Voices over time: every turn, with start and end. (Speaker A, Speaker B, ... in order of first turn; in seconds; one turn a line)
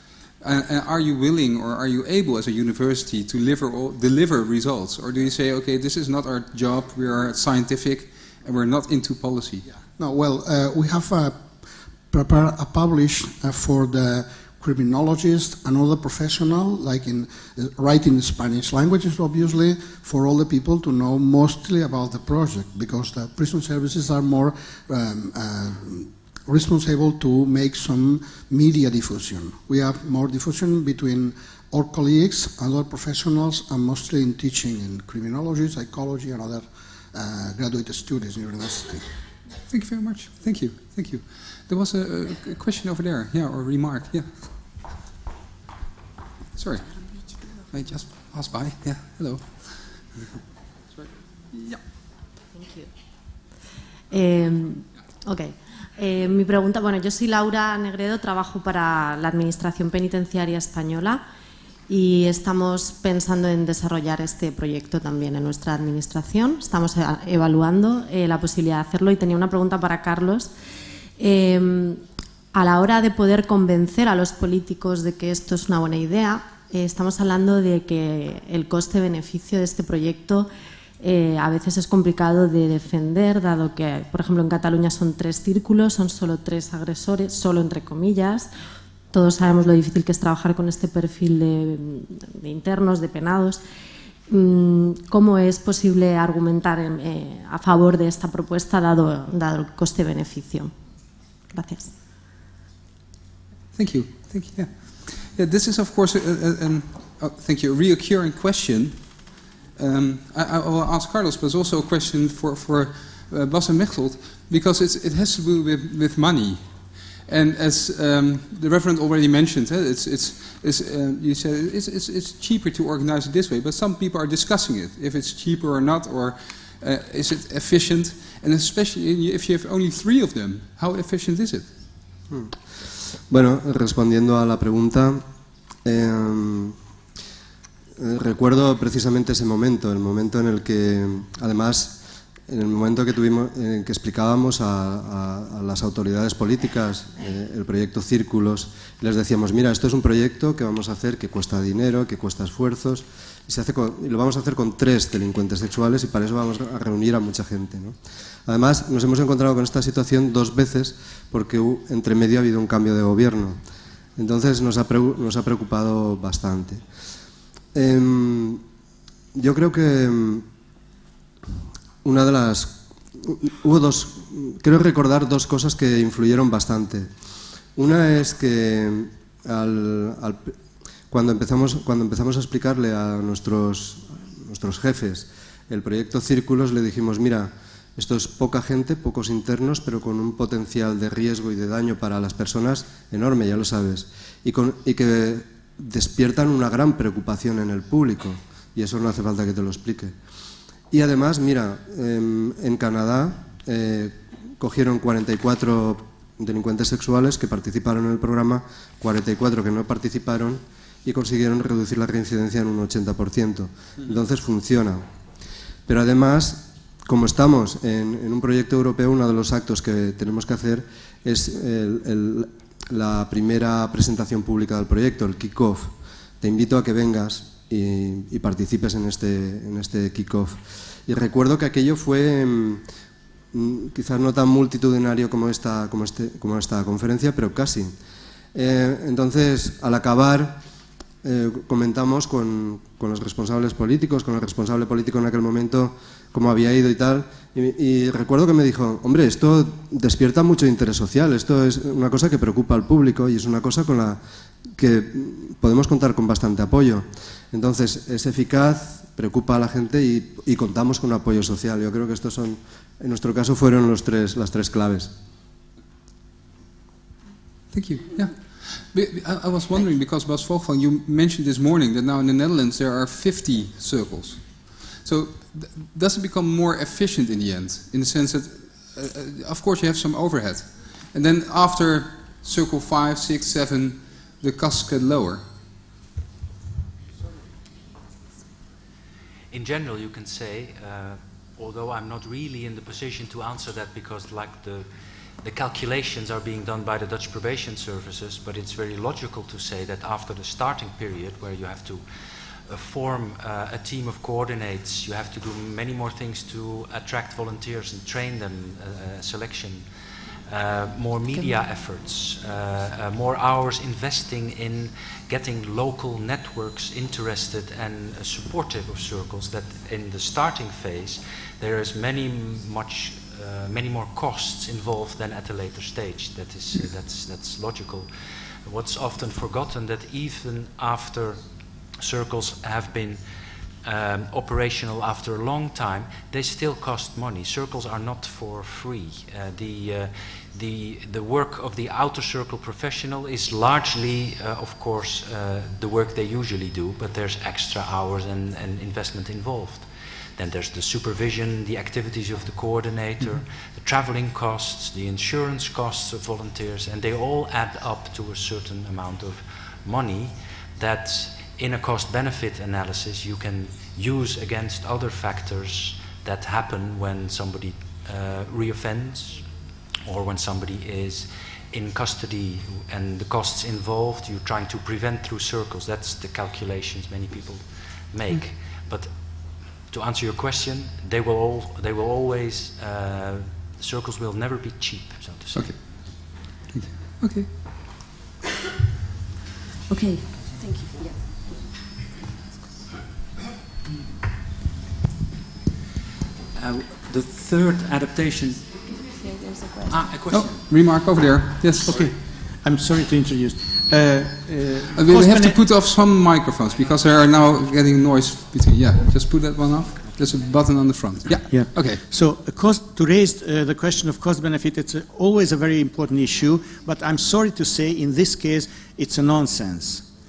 Speaker A: 0.4-9.7
Speaker B: 9.7-39.1
Speaker A: 39.7-44.8
Speaker A: 46.5-46.9
Speaker C: 46.9-47.5
Speaker A: 47.7-50.2
Speaker A: 50.9-51.8
Speaker D: 52.5-52.9
Speaker D: 54.1-61.2
Speaker D: 61.9-70.5
Speaker D: 71.2-72.0
Speaker D: 72.5-80.5
Speaker D: 81.0-88.5
Speaker D: 89.1-93.6
Speaker D: 94.3-100.7
Speaker D: 101.5-101.9
Speaker A: 103.7-131.7
Speaker E: 132.3-132.6
Speaker E: 133.1-135.2
Speaker E: 135.8-136.8
Speaker E: 138.0-163.6
Speaker E: 164.2-166.8
Speaker E: 167.7-168.6
Speaker E: 169.3-170.4
Speaker E: 172.0-177.1
Speaker E: 177.7-180.6
Speaker E: 181.1-200.1
Speaker E: 200.9-215.1
Speaker E: 215.9-232.8
Speaker E: 233.5-237.9
Speaker E: 238.5-240.6
Speaker E: 241.2-254.2
Speaker E: 254.7-265.1
Speaker A: 267.7-285.5
Speaker F: 289.5-294.9
Speaker F: 295.4-302.1
Speaker F: 302.7-309.9
Speaker F: 310.5-328.1
Speaker F: 328.6-333.2
Speaker F: 333.8-369.5
Speaker F: 370.0-385.8
Speaker A: 385.5-387.5
Speaker C: 389.9-391.6
Speaker F: 396.6-398.7
Speaker C: 398.9-400.0
Speaker F: 399.9-400.6
Speaker A: 400.3-401.9
Speaker G: 401.8-405.7
Speaker A: 404.9-412.0
Speaker G: 411.3-420.1